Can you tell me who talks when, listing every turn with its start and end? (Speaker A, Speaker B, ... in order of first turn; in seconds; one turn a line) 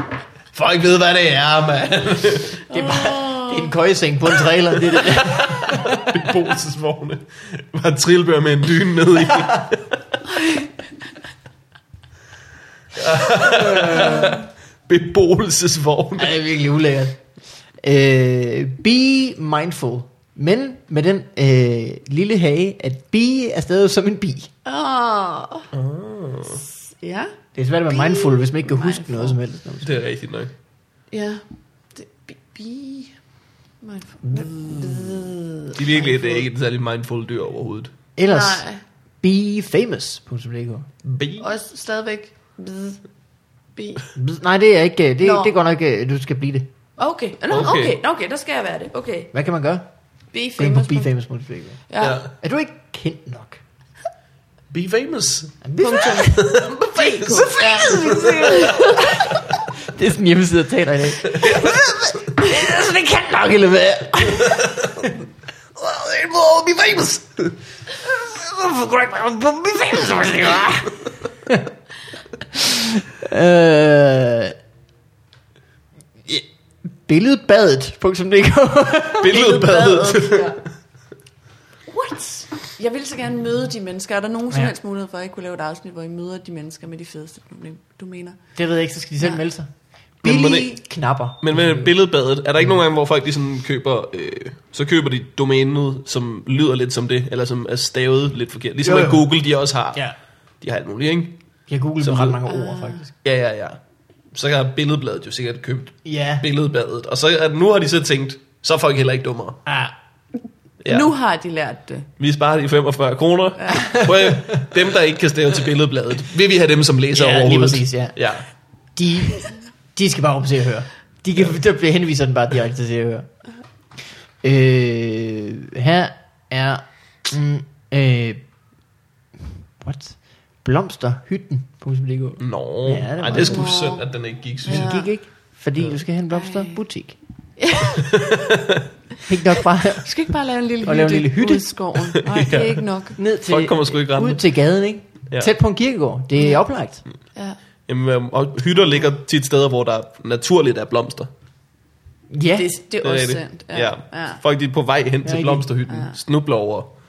Speaker A: 0.5-2.6
Speaker B: 2.7-3.7
Speaker C: 2.7-5.9
Speaker A: 5.0-10.0
Speaker B: 10.3-10.7
Speaker A: 12.9-16.4
Speaker C: 13.4-14.4
Speaker C: 16.2-17.2
Speaker C: 17.8-24.5
Speaker B: 24.6-25.7
Speaker A: 25.7-26.6
Speaker B: 26.8-27.3
Speaker C: 27.6-30.0
Speaker B: 27.9-29.4
Speaker A: 29.8-30.5
Speaker B: 31.1-31.4
Speaker B: 31.9-33.2
Speaker B: 33.8-36.4
Speaker A: 35.8-37.9
Speaker C: 38.2-38.7
Speaker B: 38.3-38.8
Speaker C: 39.2-40.9
Speaker A: 41.0-41.5
Speaker B: 41.4-43.0
Speaker B: 43.8-44.1
Speaker C: 44.1-46.7
Speaker B: 45.2-45.5
Speaker B: 47.0-49.3
Speaker A: 47.5-48.0
Speaker C: 49.3-49.9
Speaker B: 50.3-51.1
Speaker C: 50.6-51.8
Speaker B: 51.9-52.2
Speaker A: 52.0-52.3
Speaker C: 52.3-53.6
Speaker A: 54.7-55.6
Speaker C: 55.6-56.5
Speaker B: 55.8-59.4
Speaker A: 56.1-58.3
Speaker C: 57.3-65.2
Speaker A: 61.2-61.9
Speaker A: 64.4-65.1
Speaker A: 65.8-67.5
Speaker C: 68.0-71.7
Speaker C: 72.4-74.5
Speaker C: 77.0-79.4
Speaker A: 79.2-80.6
Speaker B: 79.3-80.6
Speaker B: 81.9-88.4
Speaker C: 88.6-89.7
Speaker A: 90.2-90.7
Speaker C: 90.2-91.9
Speaker A: 91.4-100.0
Speaker C: 98.8-99.2
Speaker A: 100.6-101.4
Speaker C: 101.7-103.1
Speaker A: 102.0-102.4
Speaker B: 102.5-103.0
Speaker A: 103.2-103.8
Speaker A: 104.3-109.6
Speaker C: 106.0-106.5
Speaker C: 109.7-110.0
Speaker A: 110.8-111.1
Speaker B: 110.9-112.1
Speaker A: 112.2-118.5
Speaker B: 113.6-114.0
Speaker C: 113.9-114.5
Speaker C: 117.1-118.2
Speaker C: 119.0-123.3
Speaker C: 124.4-128.4
Speaker C: 129.8-133.7
Speaker A: 132.4-134.9
Speaker B: 133.3-134.1
Speaker C: 134.7-137.2
Speaker B: 134.7-135.1
Speaker B: 136.3-136.8
Speaker B: 137.6-138.3
Speaker A: 138.2-138.7
Speaker C: 139.3-140.1
Speaker B: 140.0-143.2
Speaker C: 140.8-141.7
Speaker A: 142.2-142.8
Speaker C: 143.2-147.0
Speaker A: 143.5-144.4
Speaker A: 147.9-151.3
Speaker C: 152.3-152.7
Speaker B: 152.6-154.4
Speaker A: 153.0-156.9
Speaker C: 155.2-155.7
Speaker B: 155.9-156.2